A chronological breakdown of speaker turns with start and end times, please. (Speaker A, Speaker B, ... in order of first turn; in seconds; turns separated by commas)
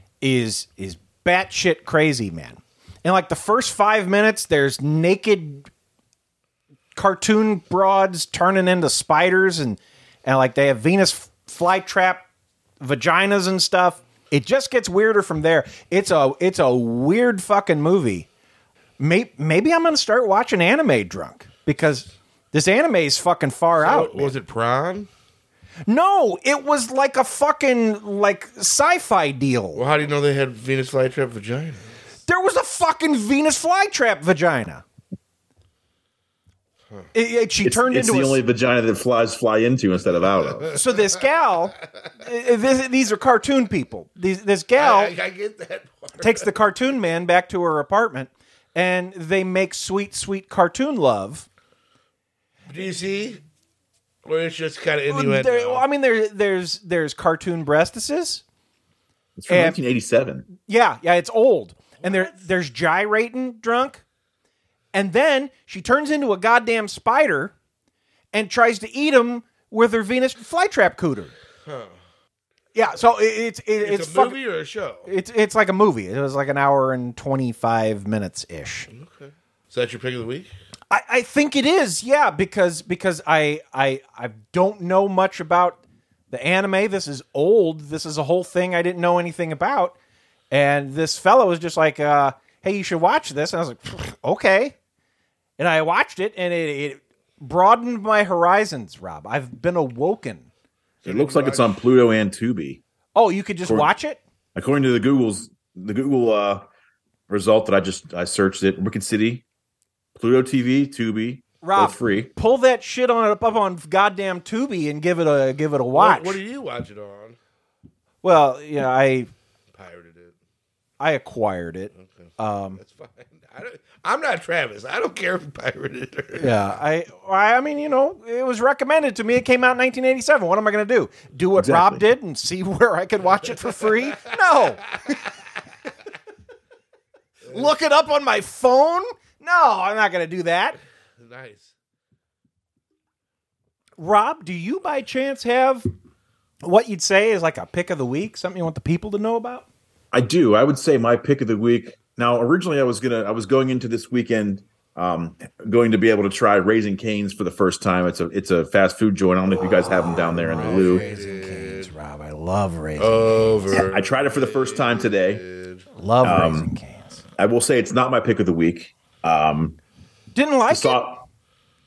Speaker A: 0.2-5.7, Speaker A: 7.0-12.2, Speaker A: 12.8-18.3, Speaker A: 19.0-24.3, Speaker B: 23.8-25.1, Speaker A: 25.9-29.8, Speaker B: 29.7-31.9, Speaker A: 32.3-34.8, Speaker A: 37.1-38.4, Speaker C: 37.6-40.7, Speaker A: 40.7-45.1, Speaker B: 44.8-46.5, Speaker A: 46.2-51.5, Speaker B: 52.7-53.4, Speaker B: 54.2-55.8, Speaker A: 55.1-58.4, Speaker C: 59.4-60.5, Speaker A: 59.5-59.8, Speaker A: 60.5-64.0, Speaker B: 62.0-62.3, Speaker A: 64.9-67.5, Speaker A: 68.3-71.3, Speaker B: 71.7-72.0, Speaker A: 72.8-74.4, Speaker B: 73.8-75.1, Speaker A: 75.1-78.9, Speaker B: 78.9-80.5, Speaker A: 80.9-85.8, Speaker A: 86.3-90.0, Speaker A: 90.5-94.8, Speaker A: 95.6-100.5, Speaker B: 101.0-101.8, Speaker C: 101.0-102.8, Speaker A: 103.2-104.2, Speaker C: 104.5-106.7, Speaker C: 107.3-109.4, Speaker C: 110.2-112.3, Speaker A: 111.6-116.4, Speaker B: 115.9-117.4, Speaker A: 118.2-119.3, Speaker B: 119.7-120.3, Speaker A: 121.0-122.8, Speaker B: 122.0-122.3, Speaker B: 122.8-126.5, Speaker A: 126.4-134.9, Speaker C: 131.6-132.0, Speaker A: 137.5-140.8, Speaker B: 141.2-141.7, Speaker A: 144.0-145.8, Speaker A: 146.6-149.7, Speaker C: 150.1-161.0, Speaker A: 159.8-163.8, Speaker B: 160.6-161.9, Speaker B: 163.0-165.8, Speaker C: 163.7-165.4, Speaker A: 165.9-167.2, Speaker C: 166.2-166.7, Speaker C: 167.4-169.8, Speaker A: 170.3-171.0, Speaker C: 170.7-171.2